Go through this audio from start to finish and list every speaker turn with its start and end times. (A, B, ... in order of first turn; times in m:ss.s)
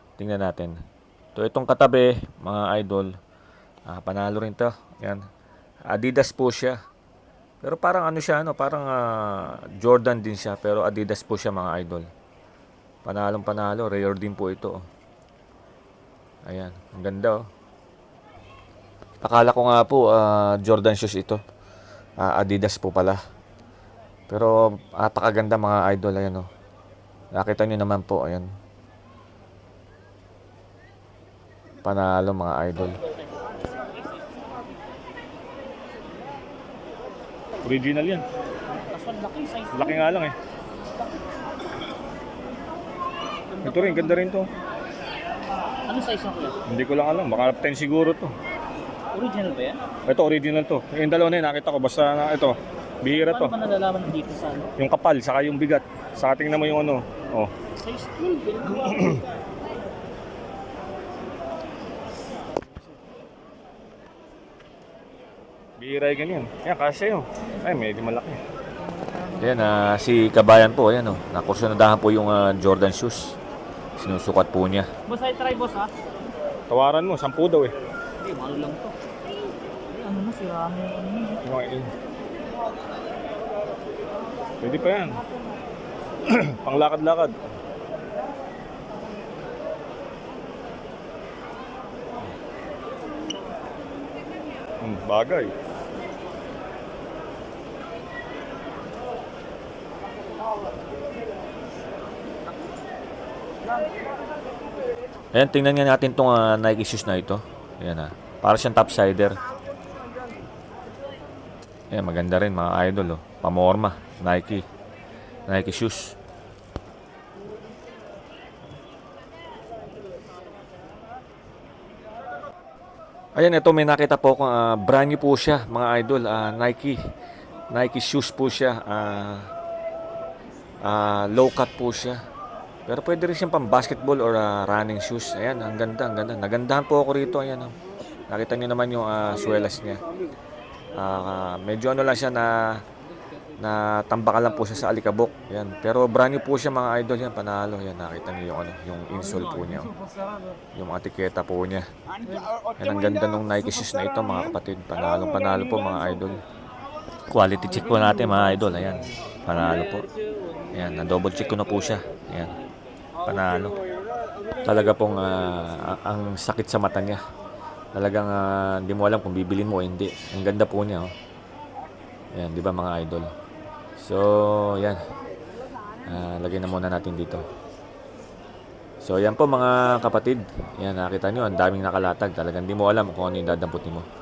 0:00.2-0:00.8 A
0:01.4-0:03.1 A
0:03.9-0:05.2 A
0:05.9-0:06.8 A
0:07.6-0:12.1 A
0:13.0-0:14.8 A
0:16.5-0:17.4 A
0:19.2-0:21.4 A
0:22.2-0:23.2 A
0:24.3-0:26.5 A
0:27.4-0:28.5 A
0:31.8-0:33.0 A
0:37.6-0:38.2 B
0:38.8-0:40.2 C
0:39.8-0:40.3 B
0:43.5-0:44.3 C
0:43.6-0:44.4 B
0:45.8-0:46.6 C
0:46.7-0:48.3 B
0:49.1-0:49.8 C
0:50.1-0:53.5 B
0:53.0-0:54.7 C
0:54.8-0:57.5 B
0:57.8-0:59.2 C
0:58.9-0:59.2 B
1:05.8-1:08.4 B
1:08.8-1:09.7 C
1:09.4-1:13.4 A
1:14.0-1:14.9 A
1:15.1-1:15.9 C
1:16.7-1:17.7 B
1:18.2-1:18.9 C
1:19.9-1:21.4 C
1:21.5-1:21.8 B
1:24.6-1:25.2 B
1:26.3-1:27.4 B
1:34.8-1:35.5 B
1:45.4-1:49.4 A
1:51.9-1:54.6 A
1:55.5-1:56.2 A
2:03.4-2:07.0 A
2:07.7-2:09.5 A
2:10.8-2:12.2 A
2:12.9-2:17.7 A
2:18.3-2:20.0 A
2:21.0-2:22.6 A
2:23.6-2:29.9 A
2:30.8-2:31.8 A
2:32.7-2:36.4 A
2:37.3-2:40.1 A
2:40.7-2:42.6 A
2:43.2-2:43.8 A
2:44.6-2:47.2 A
2:48.0-2:51.1 A
2:52.4-2:53.3 A
2:54.0-2:55.0 A
2:56.1-2:57.4 A
2:59.0-3:04.0 A